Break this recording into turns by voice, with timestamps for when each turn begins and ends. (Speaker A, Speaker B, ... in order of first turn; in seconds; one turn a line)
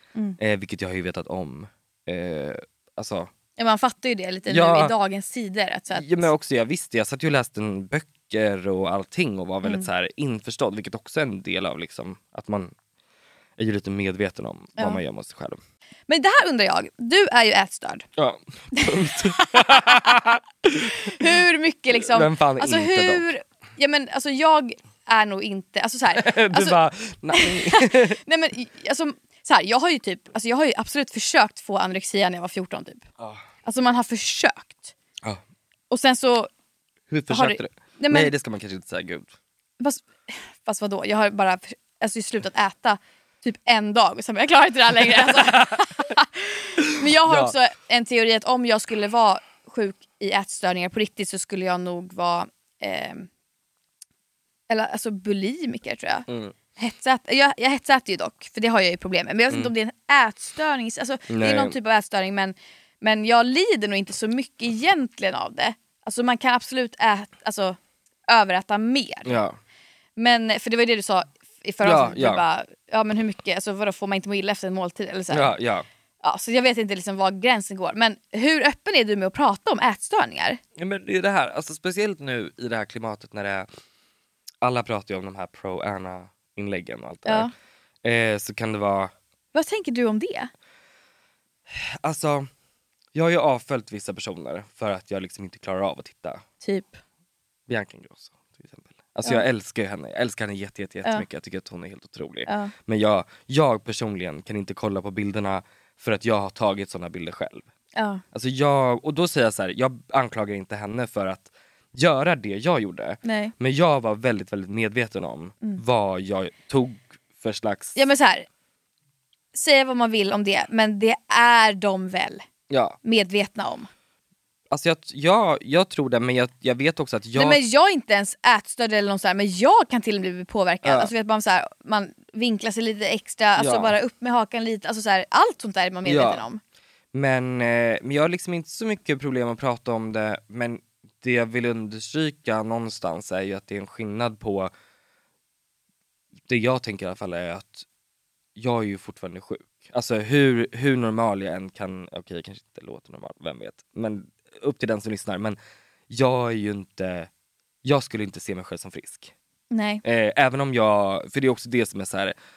Speaker A: 0.4-3.3
Speaker B: 3.6-6.3
Speaker A: 4.5-4.9
Speaker A: 5.9-12.7
Speaker A: 13.6-15.6
Speaker B: 16.1-18.0
Speaker A: 18.2-21.4
Speaker B: 18.7-20.2
Speaker B: 21.1-26.8
Speaker A: 22.0-23.3
Speaker A: 26.1-28.2
Speaker B: 27.3-33.0
Speaker B: 33.6-34.9
Speaker B: 35.9-36.5
Speaker A: 37.1-39.3
Speaker B: 37.3-38.3
Speaker B: 39.8-53.3
Speaker A: 45.1-45.8
Speaker A: 47.2-47.5
Speaker B: 54.7-56.2
Speaker A: 56.3-56.5
Speaker B: 56.8-69.3
Speaker A: 61.3-61.8
Speaker A: 69.2-69.6
Speaker B: 70.2-75.5
Speaker A: 71.8-72.4
Speaker A: 75.3-75.8
Speaker B: 76.2-80.6
Speaker A: 80.8-83.7
Speaker A: 84.6-87.5
Speaker A: 88.0-89.1
Speaker B: 89.5-90.5
Speaker A: 91.7-92.5
Speaker A: 93.1-96.4
Speaker B: 96.6-97.0
Speaker A: 97.7-107.7
Speaker B: 102.5-102.7
Speaker B: 107.9-108.2
Speaker A: 108.3-118.0
Speaker B: 113.2-113.5
Speaker B: 118.0-118.5
Speaker B: 119.5-122.4
Speaker A: 122.7-123.0
Speaker B: 123.0-123.9
Speaker A: 124.7-127.6
Speaker B: 127.3-136.6
Speaker A: 130.8-131.1
Speaker A: 133.6-133.9
Speaker A: 136.0-136.4
Speaker A: 137.1-144.7
Speaker A: 146.5-147.8
Speaker A: 148.6-155.6
Speaker A: 156.1-157.3
Speaker A: 157.8-159.3
Speaker B: 159.7-160.0
Speaker A: 160.0-162.3